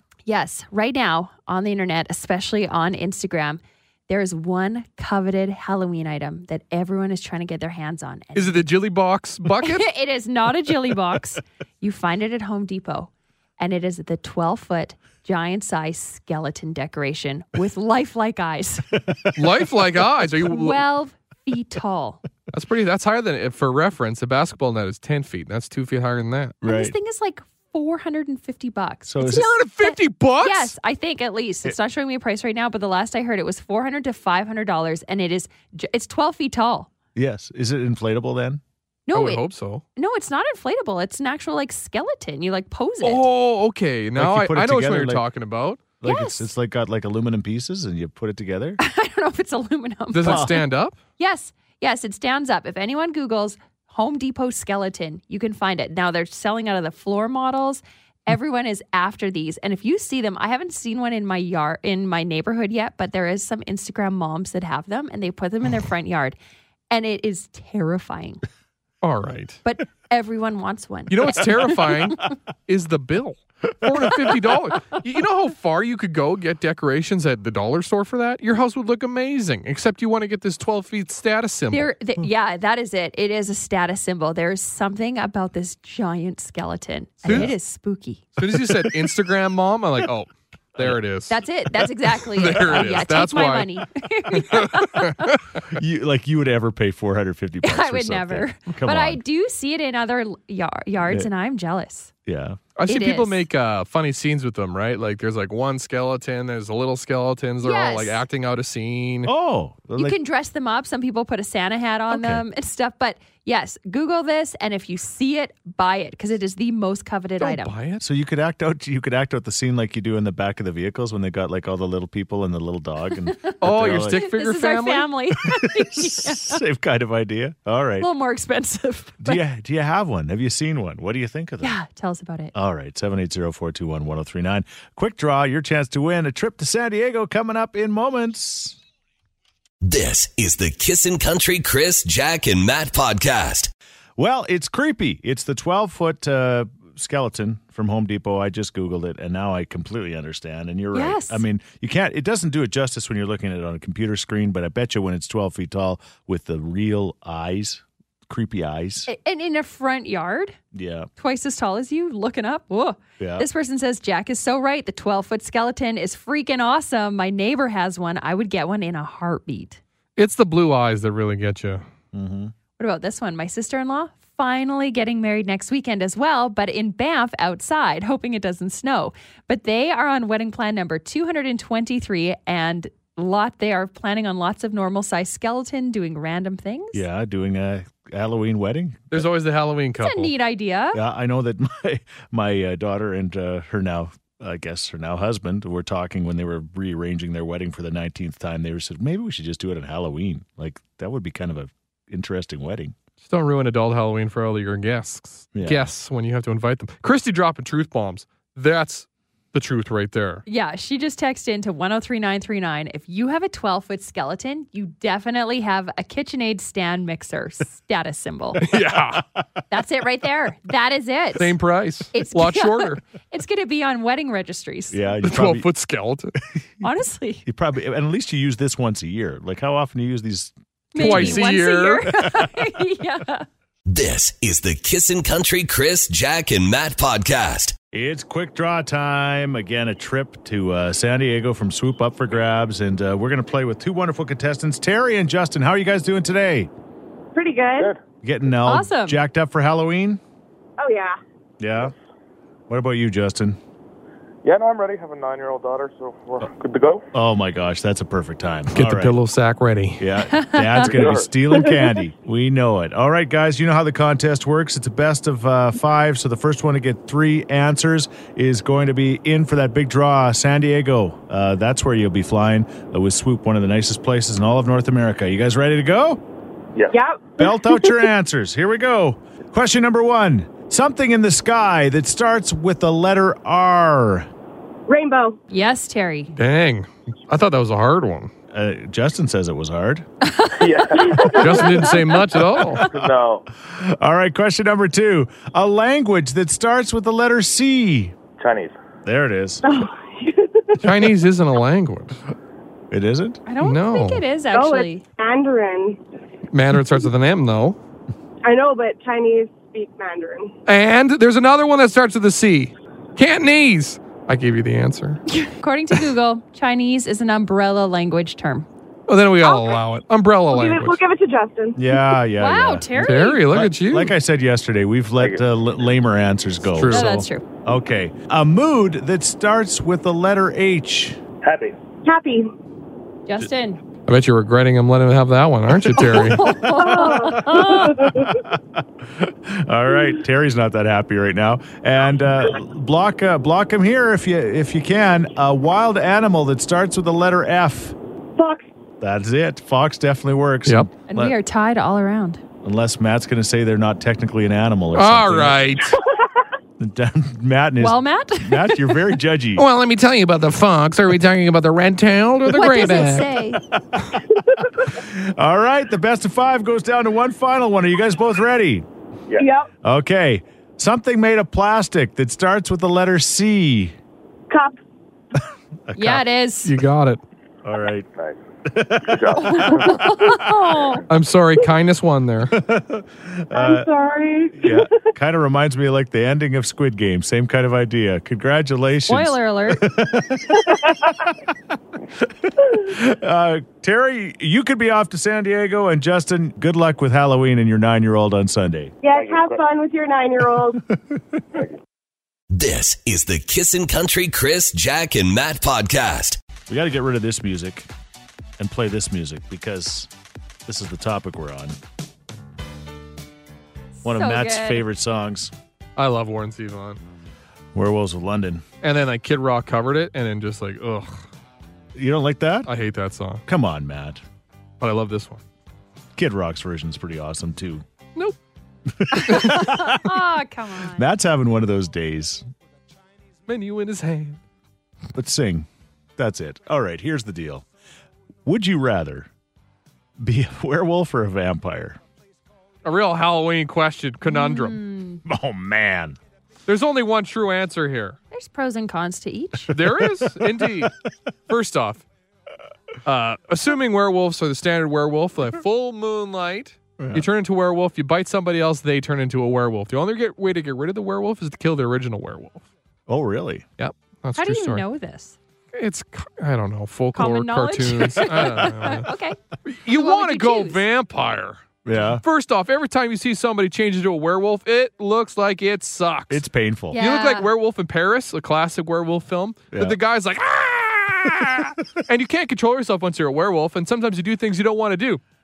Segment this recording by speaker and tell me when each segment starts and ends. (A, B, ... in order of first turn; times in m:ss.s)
0:00.3-0:08.7 A
0:08.4-0:09.9 B
0:09.5-0:18.9 A
0:19.4-0:20.8 B
0:20.4-0:22.2 A
0:22.5-0:26.6 B
0:26.6-0:27.0 C
0:26.6-0:36.9 A
0:29.0-0:29.5 C
0:29.2-0:30.7 B
0:37.1-0:38.6 C
0:39.1-0:43.3 A
0:39.1-0:39.8 B
0:43.0-0:45.8 B
0:44.2-0:45.2 C
0:46.0-0:48.8 C
0:46.0-0:46.5 A
0:48.8-0:50.6 A
0:50.1-0:51.0 B
0:50.2-0:50.6 C
0:51.2-1:06.4 A
1:06.9-1:08.4 A
1:09.0-1:09.6 B
1:09.6-1:12.0 A
1:11.1-1:21.9 B
1:21.7-1:28.3 A
1:27.2-1:27.5 C
1:27.2-1:27.5 B
1:28.4-1:31.4 B
1:28.4-1:28.7 C
1:31.3-1:35.3 A
1:32.1-1:33.7 B
1:34.3-1:35.4 B
1:35.7-1:39.2 C
1:37.6-1:42.1 A
1:42.2-1:42.6 C
1:42.8-1:49.3 B
1:42.9-1:43.4 A
1:47.6-1:48.2 A
1:49.2-1:50.2 C
1:50.0-1:57.7 A
1:52.1-1:52.4 C
1:57.4-1:58.0 B
1:58.0-2:04.3 C
2:03.3-2:06.6 A
2:03.6-2:05.1 B
2:05.5-2:08.1 C
2:08.0-2:09.4 A
2:09.2-2:11.8 C
2:11.6-2:12.5 A
2:12.5-2:18.8 C
2:19.8-2:23.7 D
2:24.2-2:39.1 C
2:30.9-2:31.4 A
2:39.1-2:40.6 A
2:40.7-2:41.1 C
2:41.2-2:49.8 A
2:43.2-2:43.5 C
2:50.2-2:51.8 B
2:52.1-2:52.5 C
2:52.8-3:07.0 A
3:06.9-3:09.3 C
3:09.1-3:10.3 B
3:10.0-3:11.0 A
3:10.9-3:23.0 C
3:23.2-3:30.4 B
3:25.6-3:25.9 C
3:30.5-3:38.7 A
3:38.6-3:39.2 B
3:39.7-3:41.6 A
3:41.4-3:43.0 B
3:42.1-3:45.1 A
3:44.9-3:45.7 C
3:45.2-3:46.3 B
3:46.8-3:47.4 A
3:47.5-3:51.4 C
3:50.9-3:53.5 A
3:51.0-3:52.0 B
3:53.9-3:57.8 D
3:57.9-4:06.7 C
4:07.3-4:07.9 E
4:08.2-4:10.2 C
4:08.6-4:09.2 A
4:10.8-4:11.2 E
4:11.6-4:11.9 C
4:12.7-4:13.6 C
4:14.4-4:17.1 F
4:17.1-4:19.2 C
4:18.7-4:20.0 B
4:20.0-4:36.2 C
4:20.3-4:20.9 A
4:20.8-4:21.3 F
4:36.9-4:38.1 E
4:37.4-4:44.3 C
4:44.9-4:45.4 E
4:45.5-4:46.3 A
4:46.4-4:48.3 B
4:48.5-4:50.1 C
4:50.2-4:52.2 A
4:50.5-4:51.4 F
4:51.2-4:51.6 E
4:51.3-4:52.8 B
4:52.8-4:53.4 F
4:52.9-4:58.2 C
4:58.4-4:58.8 F
4:59.0-4:59.6 C
4:59.6-5:00.9 E
5:00.8-5:02.2 B
5:02.9-5:03.4 C
5:03.5-5:05.0 A
5:03.6-5:04.2 B
5:04.5-5:06.0 E
5:06.5-5:07.8 B
5:08.4-5:10.5 E
5:10.7-5:15.2 B
5:15.3-5:18.7 A
5:19.1-5:21.0 B
5:19.4-5:19.8 A
5:20.5-5:22.0 E
5:21.8-5:31.2 C
5:22.4-5:23.5 A
5:23.0-5:24.1 B
5:26.7-5:27.1 B
5:26.9-5:27.4 A
5:31.4-5:31.8 F
5:32.0-5:32.5 E
5:33.3-5:33.8 A
5:34.1-5:36.4 B
5:36.2-5:38.1 A
5:36.6-5:38.4 E
5:38.3-5:48.0 C
5:48.4-5:48.7 E
5:49.0-5:51.4 C
5:51.1-5:52.4 A
5:52.6-5:55.8 C
5:54.9-5:56.0 B
5:56.8-5:59.6 C
5:57.8-5:59.1 A
5:59.6-6:03.3 B
6:02.5-6:03.6 A
6:04.9-6:08.9 C
6:09.4-6:09.7 E
6:09.8-6:14.0 C
6:14.5-6:14.8 E
6:15.9-6:16.2 C
6:16.0-6:16.7 A
6:16.6-6:17.2 B
6:17.6-6:18.1 C
6:18.2-6:18.4 F
6:18.7-6:20.5 C
6:19.0-6:20.1 F
6:19.4-6:21.0 A
6:21.1-6:22.6 B
6:22.5-6:23.9 C
6:23.5-6:25.1 E
6:24.5-6:30.7 C
6:29.1-6:29.9 A
6:30.8-6:31.1 E
6:32.2-6:38.9 C
6:39.0-6:40.8 E
6:39.1-6:39.6 F
6:42.5-6:46.4 D
6:46.7-6:47.9 C
6:48.6-6:50.1 C
6:50.6-6:51.8 C
6:54.0-6:54.9 A
6:54.0-6:55.5 C
6:56.0-6:57.0 B
6:57.7-6:58.6 C
6:58.8-7:01.2 B
7:01.9-7:02.7 C
7:02.6-7:03.4 B
7:03.4-7:04.2 C
7:04.8-7:05.4 B
7:06.2-7:07.8 C
7:08.9-7:10.2 C
7:09.1-7:11.1 A
7:10.8-7:12.4 C
7:13.5-7:14.4 B
7:15.1-7:17.6 C
7:18.4-7:19.3 C
7:20.2-7:22.0 C
7:22.8-7:24.8 B
7:24.2-7:25.2 A
7:25.2-7:26.2 C
7:26.7-7:28.2 B
7:28.3-7:29.8 A
7:29.7-7:30.9 B
7:30.0-7:30.9 C
7:31.5-7:32.0 B
7:33.1-7:42.6 B
7:37.0-7:37.3 C
7:43.1-7:43.6 C
7:43.8-7:44.8 B
7:44.4-7:45.4 A
7:45.7-7:49.1 B
7:47.1-7:50.8 A
7:49.6-8:05.2 B
7:51.8-7:52.2 C
7:56.3-7:57.0 C
7:56.9-7:57.5 A
7:59.7-8:00.0 C